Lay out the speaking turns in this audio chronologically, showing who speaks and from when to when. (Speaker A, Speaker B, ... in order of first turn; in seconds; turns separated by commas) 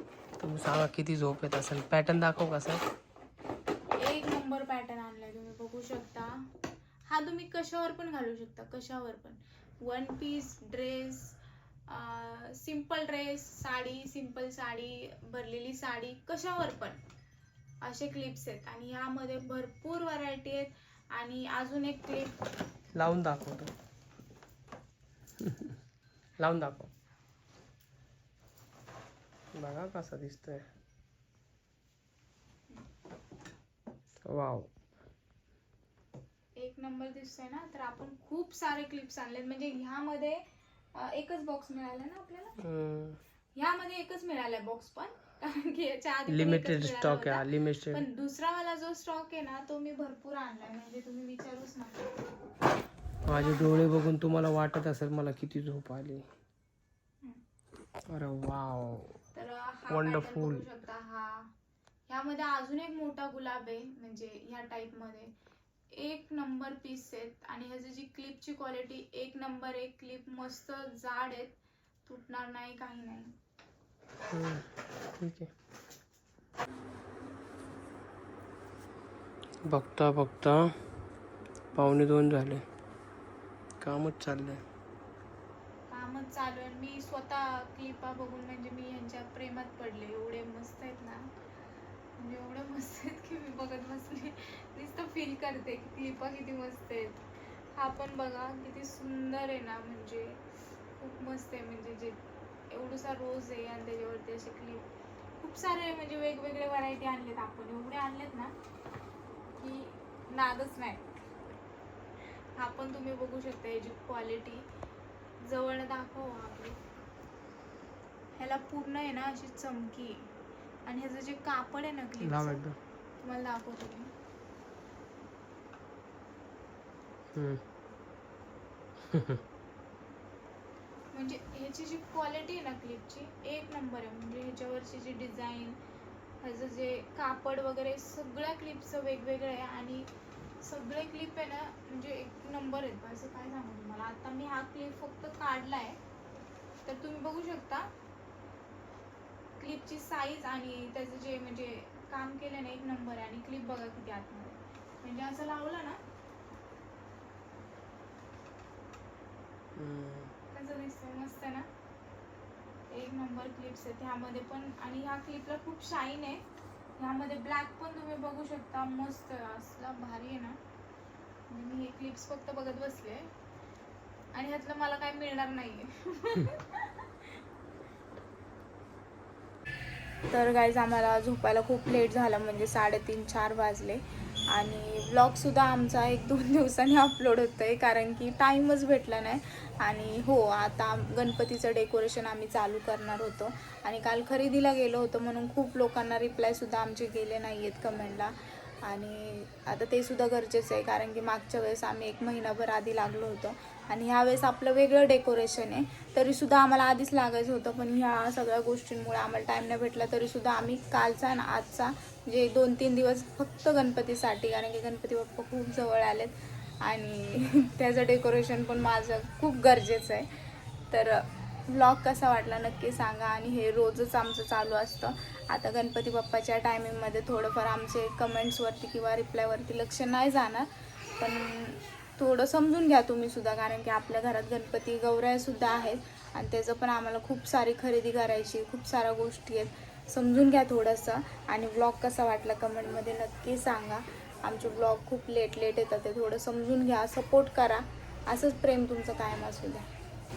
Speaker A: 0.4-2.8, Speaker B: 3.9-6.3, Speaker B: 7.1-11.4, Speaker B: 11.9-17.0, Speaker B: 17.8-22.4, Speaker A: 22.9-23.7, Speaker A: 25.4-25.7, Speaker A: 26.4-26.9, Speaker A: 29.6-30.6, Speaker A: 34.3-34.7, Speaker B: 36.6-40.4, Speaker B: 40.9-42.6, Speaker A: 42.6-43.2, Speaker B: 43.5-52.1, Speaker A: 46.3-48.0, Speaker A: 53.2-56.2, Speaker A: 58.1-59.1, Speaker B: 59.3-61.5, Speaker A: 59.9-60.6, Speaker B: 62.1-65.3, Speaker B: 65.9-73.3, Speaker A: 74.3-74.6, Speaker A: 75.2-75.5, Speaker A: 79.7-80.7, Speaker A: 81.7-82.6, Speaker A: 83.8-84.6, Speaker B: 85.9-91.3, Speaker B: 92.2-97.2, Speaker B: 97.8-100.4, Speaker B: 101.0-104.8, Speaker B: 105.4-108.5, Speaker B: 109.6-111.2, Speaker B: 112.6-114.6, Speaker B: 115.4-116.8, Speaker B: 118.4-120.3, Speaker B: 120.9-122.6, Speaker A: 122.2-122.8, Speaker B: 123.2-124.1, Speaker A: 127.3-127.6, Speaker A: 129.1-129.4, Speaker B: 131.1-135.8, Speaker B: 136.4-140.1, Speaker B: 140.6-146.0, Speaker B: 146.8-147.9, Speaker B: 149.6-156.0, Speaker A: 159.8-160.3, Speaker B: 160.5-161.7, Speaker B: 162.9-166.4, Speaker B: 167.0-170.6, Speaker B: 171.5-173.3, Speaker B: 174.3-177.1, Speaker B: 180.3-198.3, Speaker B: 198.8-220.3, Speaker B: 220.9-249.8